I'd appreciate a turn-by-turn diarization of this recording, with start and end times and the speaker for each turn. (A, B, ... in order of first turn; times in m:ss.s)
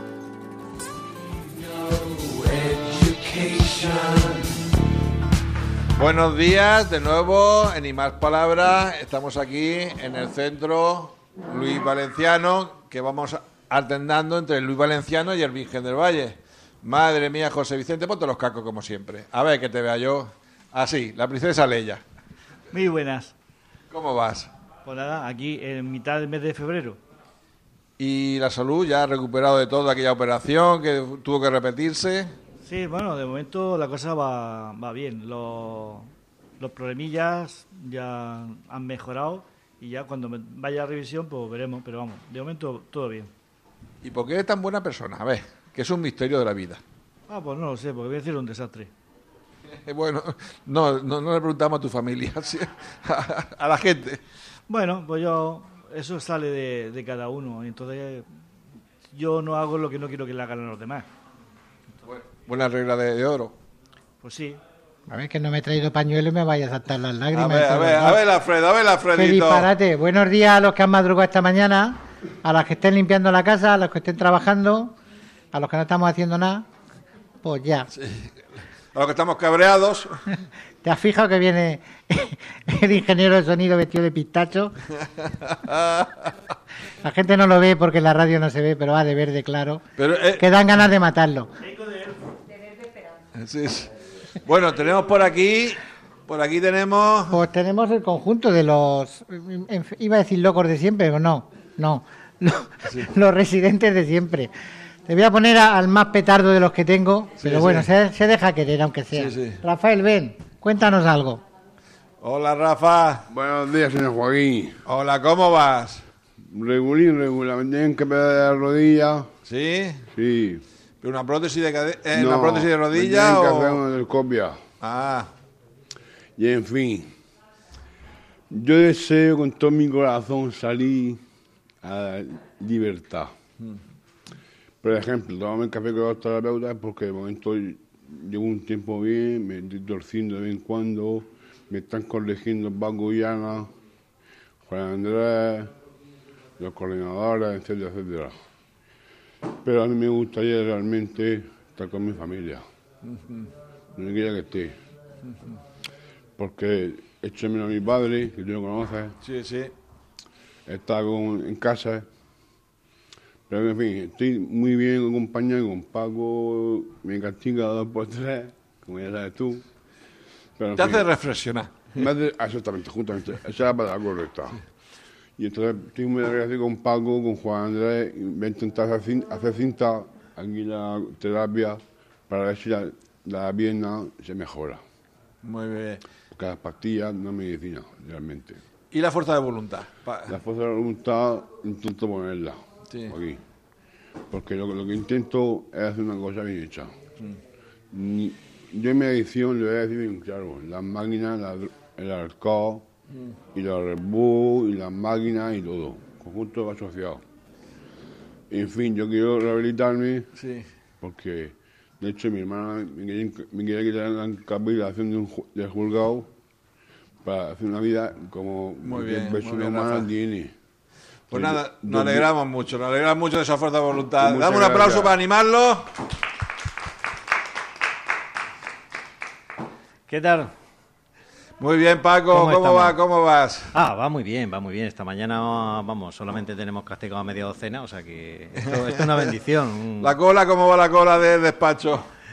0:02.0-0:04.4 A
0:06.0-0:22.0 A
0:22.7-0:23.3 B
0:23.9-0:24.5 A
0:24.8-0:27.0 B
0:28.0-0:32.3 A
0:32.6-0:43.3 B
0:44.0-0:46.8 A
0:47.3-0:48.9 B
0:49.9-0:54.2 A
0:54.7-0:58.3 B
0:59.1-1:01.0 B
1:02.0-1:03.5 A
1:04.2-1:04.6 B
1:05.1-1:08.3 C
1:07.3-1:09.7 A
1:09.1-1:14.9 C
1:15.5-1:16.6 C
1:17.4-1:17.9 C
1:17.9-1:18.3 A
1:18.9-1:20.2 A
1:20.8-1:24.7 C
1:25.5-1:26.3 A
1:27.0-1:29.8 C
1:30.0-1:30.5 A
1:30.3-1:31.5 C
1:31.8-1:32.1 B
1:33.4-1:33.9 A
1:34.4-1:37.4 A
1:37.3-1:44.5 C
1:45.1-1:51.4 C
1:47.4-1:47.9 A
1:49.1-1:49.6 A
1:52.2-1:53.2 A
1:53.3-1:54.8 D
1:54.8-1:56.0 A
1:56.5-1:59.3 D
1:59.4-2:00.0 A
2:00.1-2:00.6 D
2:01.0-2:03.8 A
2:02.1-2:04.6 D
2:04.8-2:05.3 A
2:06.4-2:07.1 D
2:08.5-2:11.2 D
2:11.8-2:13.3 D
2:14.8-2:23.7 D
2:24.6-2:25.7 D
2:26.6-2:28.3 D
2:29.6-2:32.6 D
2:33.0-2:33.5 A
2:34.0-2:34.7 D
2:36.4-2:39.2 D
2:39.2-2:39.7 A
2:40.7-2:42.0 D
2:43.5-2:49.6 D
2:50.6-2:51.1 D
2:50.7-2:52.1 A
2:51.9-2:54.6 D
2:55.4-3:04.8 D
3:05.4-3:06.0 A
3:06.3-3:08.6 D
3:08.9-3:10.3 A
3:10.3-3:12.6 D
3:13.1-3:13.4 D
3:14.3-3:16.9 D
3:17.9-3:22.8 D
3:23.5-3:27.2 D
3:28.5-3:30.3 D
3:30.4-3:30.6 A
3:31.0-3:36.3 D
3:37.2-3:40.5 D
3:38.8-3:40.1 A
3:41.3-3:45.9 A
3:41.3-3:42.3 D
3:44.2-3:45.2 D
3:50.1-3:50.5 E
3:51.6-3:53.7 A
3:52.3-3:52.9 E
3:53.7-4:00.1 E
3:58.6-3:59.3 A
4:00.0-4:02.0 A